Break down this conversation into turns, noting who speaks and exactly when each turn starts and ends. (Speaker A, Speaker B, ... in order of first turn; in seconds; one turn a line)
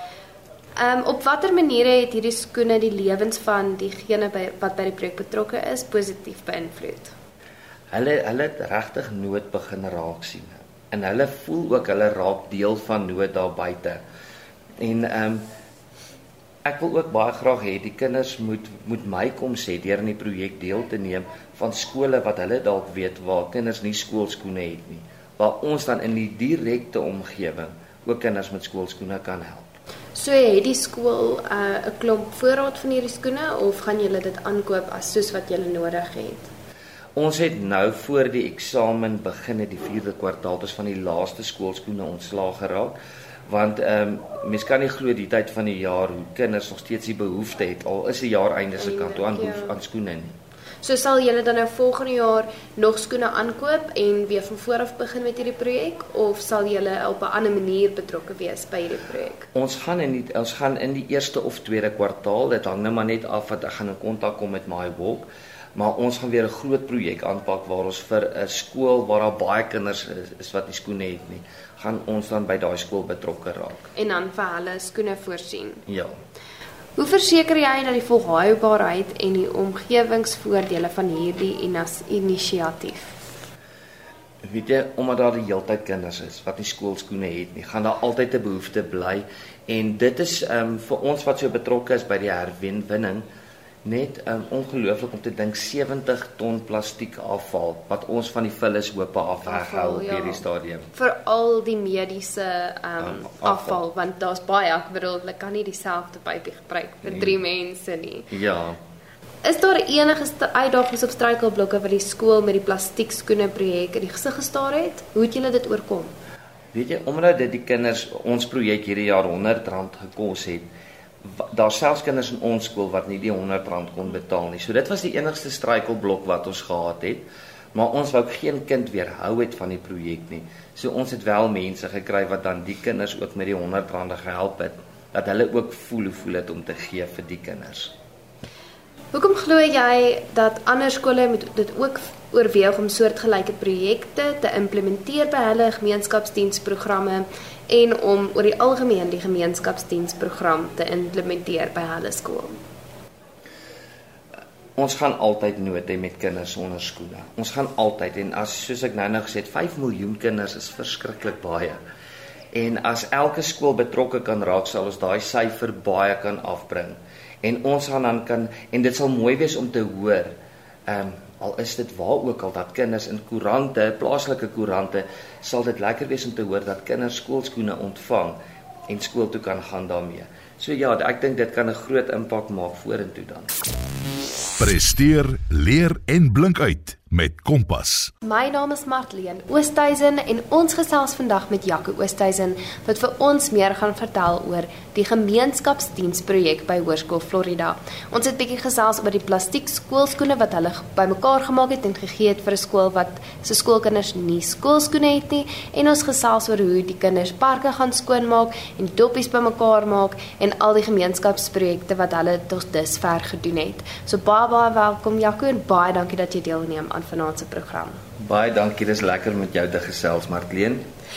Speaker A: 0.8-7.1
Speaker B: 7.9-14.0
Speaker B: 14.8-15.5
Speaker B: 16.6-29.7
Speaker A: 30.1-36.5
Speaker B: 37.1-42.9
Speaker B: 43.5-50.4
Speaker A: 48.8-49.7
Speaker A: 50.8-59.5
Speaker B: 59.5-73.9
Speaker A: 73.9-75.8
Speaker B: 75.9-76.2
Speaker A: 77.0-83.1
Speaker B: 84.4-93.2
Speaker B: 93.8-100.9
Speaker A: 99.5-100.4
Speaker A: 100.9-108.3
Speaker B: 103.0-103.8
Speaker B: 108.3-108.8
Speaker A: 109.4-116.1
Speaker B: 116.7-120.7
Speaker B: 121.2-137.9
Speaker A: 139.1-152.5
Speaker B: 154.8-161.8
Speaker B: 162.5-170.3
Speaker B: 170.9-183.5
Speaker C: 184.6-188.1
Speaker A: 188.2-218.0
Speaker B: 218.2-220.9